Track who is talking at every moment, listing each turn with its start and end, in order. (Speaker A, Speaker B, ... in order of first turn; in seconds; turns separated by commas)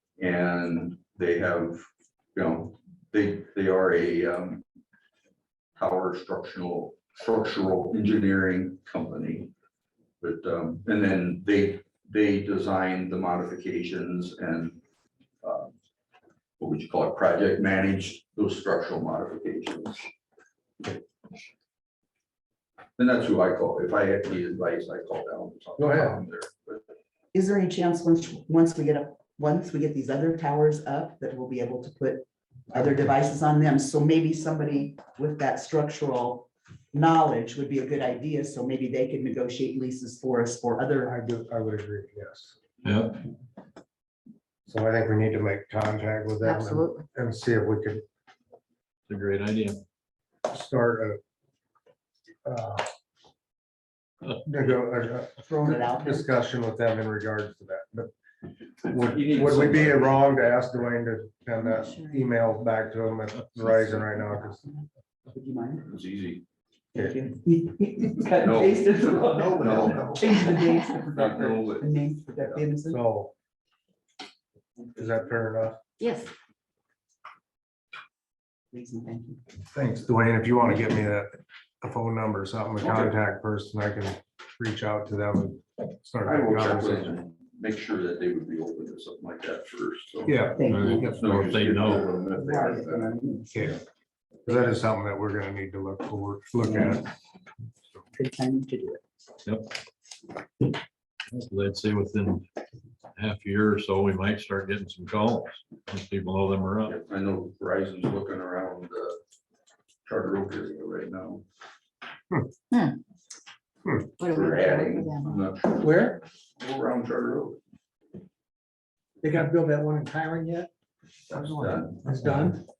Speaker A: 0.2-4.6, Speaker A: 5.8-9.5, Speaker A: 10.2-14.8, Speaker A: 15.4-15.7, Speaker A: 16.6-20.1, Speaker A: 23.0-26.9, Speaker B: 25.8-26.2, Speaker C: 27.3-41.1, Speaker B: 32.7-33.1, Speaker B: 41.0-42.6, Speaker D: 42.8-43.2, Speaker B: 44.7-48.0, Speaker E: 46.5-47.0, Speaker D: 49.1-49.8, Speaker B: 50.5-51.2, Speaker B: 52.4-52.9, Speaker D: 54.2-54.8, Speaker B: 54.4-58.1, Speaker C: 55.4-56.3, Speaker B: 58.8-64.6, Speaker A: 58.9-60.9, Speaker C: 61.6-62.2, Speaker D: 63.4-63.9, Speaker C: 64.1-65.8, Speaker A: 65.8-66.4, Speaker C: 66.9-73.0, Speaker A: 68.3-72.6, Speaker B: 69.5-70.2, Speaker B: 72.8-73.3, Speaker B: 74.9-75.8, Speaker E: 76.0-76.3, Speaker C: 78.7-79.4, Speaker B: 79.7-87.2, Speaker A: 86.2-90.4, Speaker B: 90.2-91.9, Speaker C: 90.5-91.1, Speaker D: 90.6-92.1, Speaker A: 91.2-93.1, Speaker C: 92.2-93.8, Speaker B: 93.5-93.8, Speaker B: 94.4-97.1, Speaker C: 96.6-97.1, Speaker C: 98.1-99.0, Speaker D: 99.4-99.7, Speaker D: 101.3-102.4, Speaker D: 103.2-107.0, Speaker A: 106.8-109.2, Speaker A: 110.0-111.4, Speaker B: 113.8-114.1, Speaker E: 114.2-115.3, Speaker A: 114.2-117.6, Speaker F: 115.8-116.2, Speaker F: 119.2-120.7, Speaker B: 121.3-122.5, Speaker A: 121.5-122.0, Speaker F: 122.0-122.6